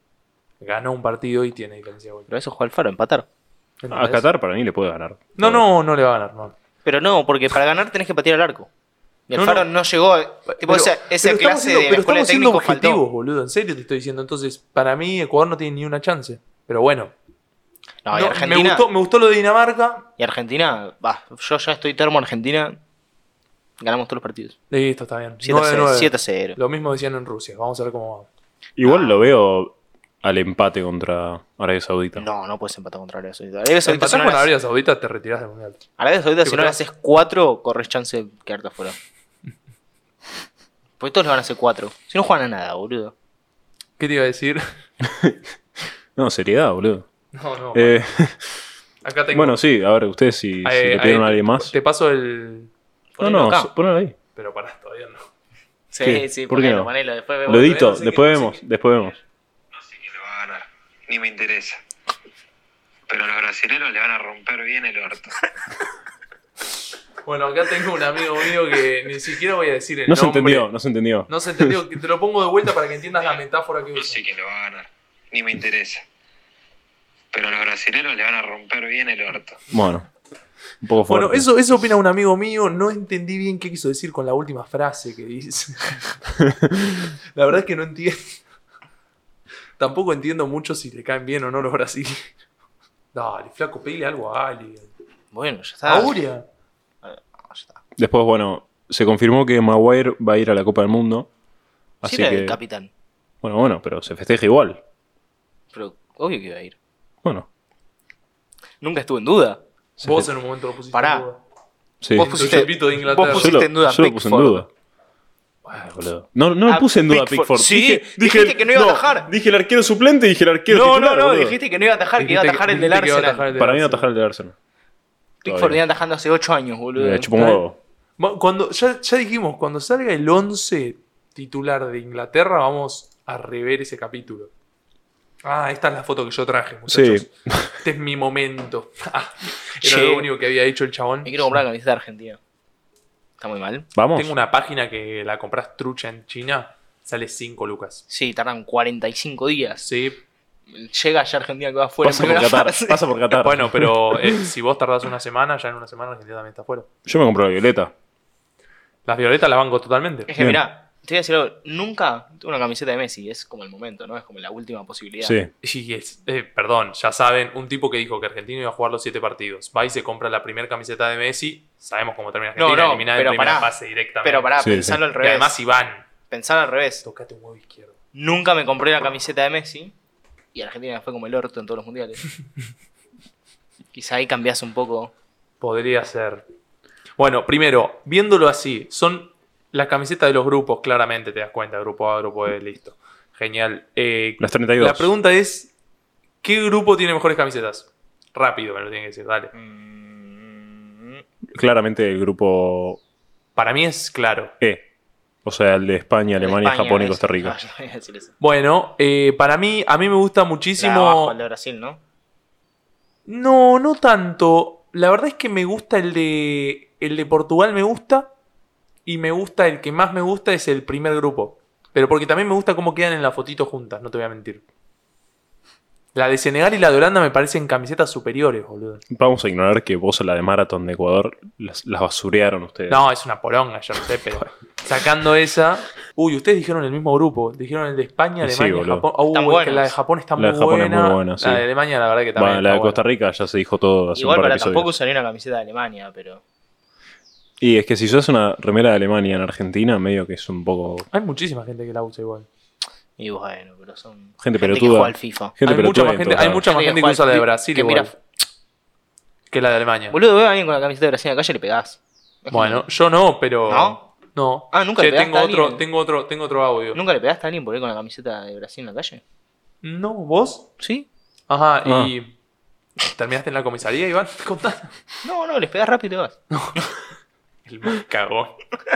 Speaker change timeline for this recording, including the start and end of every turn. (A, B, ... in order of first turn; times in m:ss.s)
0:00.6-0:02.3 A
0:02.3-0:03.3 B
0:03.8-0:04.2 A
0:03.9-0:05.7 C
0:05.4-0:06.6 A
0:06.8-0:08.7 B
0:09.3-0:13.0 B
0:09.4-0:09.7 A
0:10.5-0:17.1 A
0:18.0-0:18.9 B
0:18.1-0:20.1 A
0:20.2-0:22.8 B
0:23.8-0:24.6 B
0:24.7-0:28.3 A
0:25.4-0:26.6 B
0:28.8-0:32.3 C
0:28.8-0:29.2 B
0:32.2-0:34.5 B
0:33.8-0:35.8 A
0:36.0-0:39.0 B
0:36.4-0:36.8 A
0:41.0-0:43.1 B
0:44.0-0:44.6 A
0:45.0-0:45.4 C
0:46.2-0:47.1 C
0:47.3-0:48.1 A
0:47.7-0:48.5 C
0:49.0-0:49.6 A
0:49.3-0:51.7 C
0:50.6-0:52.7 A
0:53.2-0:53.7 B
0:53.2-0:54.2 C
0:54.4-0:55.3 A
0:55.9-0:58.4 B
0:56.0-0:56.9 C
0:57.5-0:59.2 C
0:59.8-1:01.8 D
1:03.1-1:05.4 D
1:07.2-1:10.7 A
1:10.1-1:11.8 C
1:11.3-1:14.2 A
1:14.0-1:16.0 D
1:17.3-1:19.6 D
1:19.7-1:20.1 C
1:20.8-1:21.5 C
1:21.1-1:26.2 A
1:27.3-1:28.4 A
1:29.8-1:32.3 A
1:33.1-1:34.9 A
1:35.3-1:36.2 B
1:35.9-1:36.4 A
1:37.0-1:37.8 B
1:38.0-1:41.3 C
1:42.0-1:42.6 C
1:42.0-1:42.9 B
1:43.4-1:44.8 C
1:45.7-1:46.8 B
1:48.8-1:49.6 B
1:50.0-1:50.3 C
1:50.0-1:51.4 A
1:50.9-1:51.3 B
1:52.0-1:52.7 C
1:52.2-1:54.7 B
1:52.2-1:53.6 A
1:53.2-1:54.7 C
1:55.7-2:01.6 C
1:56.7-1:59.3 B
2:00.7-2:03.4 B
2:02.2-2:04.1 A
2:03.6-2:04.6 C
2:05.4-2:07.4 B
2:05.4-2:05.8 C
2:07.0-2:07.8 C
2:08.2-2:14.5 A
2:15.4-2:17.3 A
2:16.9-2:17.8 C
2:17.8-2:21.4 A
2:19.8-2:20.3 B
2:21.2-2:22.4 B
2:23.4-2:23.9 B
2:24.0-2:24.3 C
2:24.2-2:28.0 A
2:28.1-2:29.8 B
2:29.8-2:30.2 A
2:30.7-2:33.0 B
2:32.0-2:34.5 C
2:33.4-2:36.9 A
2:37.1-2:37.9 C
2:39.1-2:40.3 A
2:40.3-2:45.4 B
2:45.2-2:45.5 C
2:45.6-2:54.5 A
2:52.6-2:53.7 B
2:54.2-2:55.6 B
2:54.6-2:55.0 C
2:55.2-2:56.0 A
2:56.3-2:57.0 B
2:57.0-2:57.9 A
2:58.2-2:59.9 B
3:00.5-3:02.2 B
3:03.9-3:05.1 B
3:05.6-3:06.4 A
3:07.2-3:15.7 A
3:14.4-3:15.1 C
3:16.4-3:19.5 A
3:19.5-3:21.2 B
3:21.5-3:23.0 C
3:23.6-3:24.5 A
3:25.4-3:27.6 C
3:26.4-3:28.3 B
3:28.4-3:31.3 A
3:30.8-3:32.0 B
3:33.3-3:38.3 A
3:39.1-3:44.6 A
3:46.2-3:49.0 A
3:49.1-3:53.0 C
3:52.9-4:03.0 A
3:58.4-3:59.0 C
3:59.3-4:00.0 B
4:00.4-4:01.6 C
4:02.4-4:04.9 C
4:04.2-4:06.4 B
4:07.6-4:11.1 C
4:11.1-4:12.5 A
4:13.2-4:15.6 B
4:14.4-4:16.6 C
4:15.6-4:18.2 A
4:16.7-4:18.1 B
4:19.5-4:20.2 A
4:20.1-4:22.8 B
4:22.5-4:27.0 A
4:23.7-4:24.0 B
4:24.7-4:25.8 B
4:26.9-4:29.2 B
4:29.8-4:30.7 A
4:30.8-4:31.1 B
4:31.5-4:32.3 A
4:31.8-4:32.1 C
4:33.1-4:34.9 A
4:35.2-4:36.4 B
4:36.5-4:36.9 A
4:37.7-4:38.6 A